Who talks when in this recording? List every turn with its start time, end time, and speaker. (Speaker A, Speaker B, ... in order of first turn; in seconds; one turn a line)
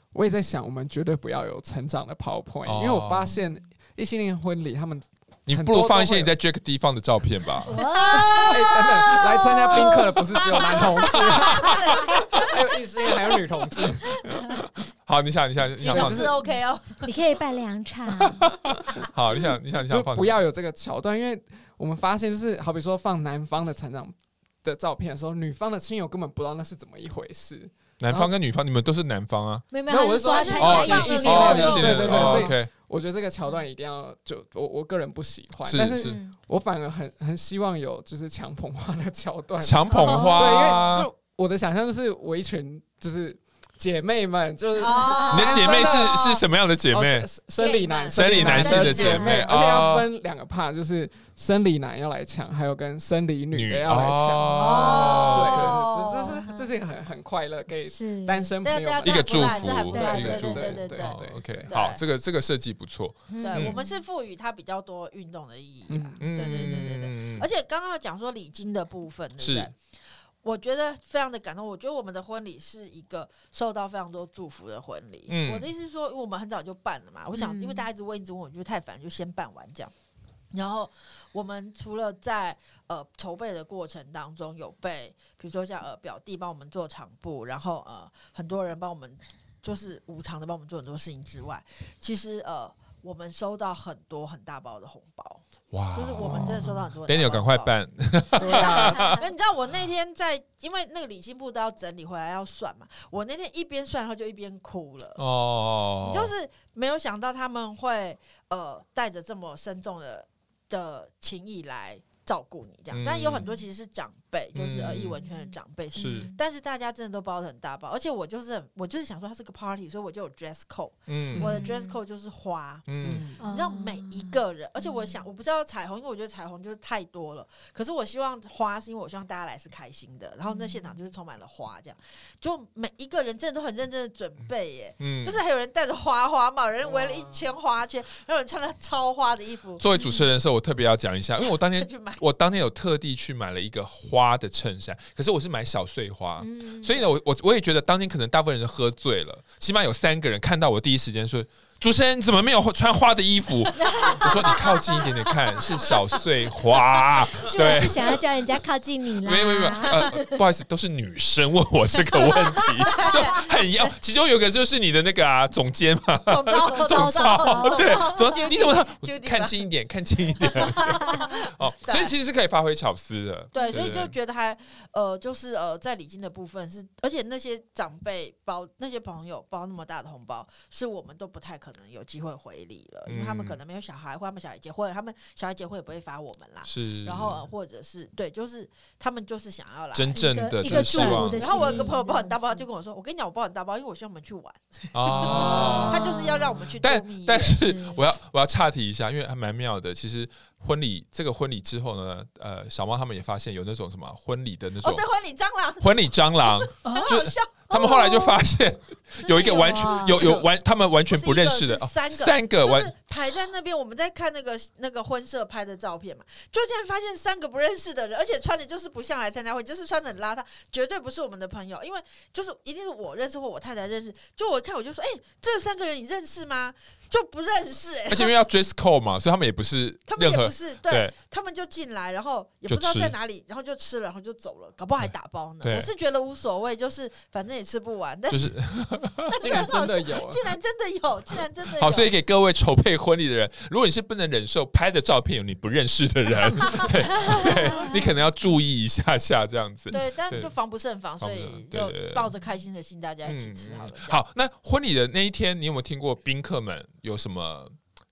Speaker A: 0.1-6.3
Speaker B: 2.7-3.4
Speaker B: 5.5-7.8
Speaker C: 7.7-8.7
Speaker D: 7.7-8.8
Speaker A: 8.4-14.4
Speaker D: 9.7-12.4
Speaker B: 11.4-12.4
Speaker B: 14.3-16.3
Speaker A: 15.8-16.6
Speaker D: 15.9-17.1
Speaker C: 17.0-18.5
Speaker B: 18.3-20.4
Speaker A: 19.8-28.3
Speaker B: 28.0-29.7
Speaker C: 29.7-32.5
Speaker A: 29.9-46.2
Speaker D: 30.3-32.5
Speaker B: 30.6-32.7
Speaker B: 35.6-36.2
Speaker C: 36.0-36.4
Speaker B: 39.6-41.1
Speaker C: 39.9-40.8
Speaker D: 44.8-46.1
Speaker C: 45.0-45.7
Speaker B: 45.3-47.3
Speaker A: 46.9-61.7
Speaker D: 47.6-49.4
Speaker B: 48.1-50.1
Speaker C: 48.5-49.5
Speaker B: 53.5-55.8
Speaker D: 54.5-56.5
Speaker C: 56.5-56.7
Speaker C: 57.9-58.5
Speaker D: 58.6-62.0
Speaker B: 59.0-63.8
Speaker C: 59.7-60.7
Speaker C: 63.3-64.0
Speaker D: 63.4-69.8
Speaker A: 65.9-66.6
Speaker B: 66.2-67.5
Speaker B: 69.4-69.7
Speaker D: 70.4-79.9
Speaker B: 75.3-75.6
Speaker C: 77.4-77.8
Speaker D: 80.5-95.4
Speaker B: 95.7-99.2
Speaker D: 95.9-105.2
Speaker C: 98.5-99.2
Speaker B: 105.2-106.3
Speaker D: 106.0-122.9
Speaker B: 112.9-113.5
Speaker B: 114.5-115.2
Speaker B: 116.0-116.3
Speaker C: 116.0-116.4
Speaker B: 121.1-121.5
Speaker A: 121.3-121.6
Speaker C: 121.4-122.0
Speaker B: 122.9-123.3
Speaker A: 123.0-123.4
Speaker C: 123.4-125.2
Speaker D: 123.4-139.8
Speaker C: 130.5-130.9
Speaker B: 135.0-135.4
Speaker B: 137.0-137.3
Speaker B: 139.8-158.2
Speaker C: 139.9-140.3
Speaker D: 141.6-142.2
Speaker C: 146.4-147.0
Speaker C: 154.0-154.6
Speaker D: 154.1-155.0
Speaker C: 157.4-160.4
Speaker B: 159.2-174.1
Speaker D: 162.8-163.5
Speaker D: 166.3-169.7
Speaker C: 166.6-168.1
Speaker D: 170.4-172.1
Speaker C: 173.6-173.9
Speaker D: 173.6-197.6
Speaker B: 183.1-183.6
Speaker B: 186.6-187.4
Speaker B: 189.9-191.9
Speaker C: 190.1-192.6
Speaker B: 194.9-196.2
Speaker C: 195.2-196.7
Speaker B: 196.8-205.0
Speaker C: 197.4-198.0
Speaker D: 204.8-208.1
Speaker B: 205.8-212.9
Speaker C: 206.8-208.4
Speaker D: 209.2-210.5
Speaker C: 209.4-210.2
Speaker D: 211.1-228.3
Speaker B: 228.1-231.1
Speaker D: 230.1-242.1
Speaker B: 232.7-233.1
Speaker B: 235.6-235.9
Speaker B: 238.3-239.6
Speaker A: 239.4-240.4
Speaker B: 241.8-250.5
Speaker D: 246.8-247.4
Speaker C: 247.2-248.0
Speaker D: 249.9-254.2
Speaker B: 251.2-252.3
Speaker B: 253.2-257.8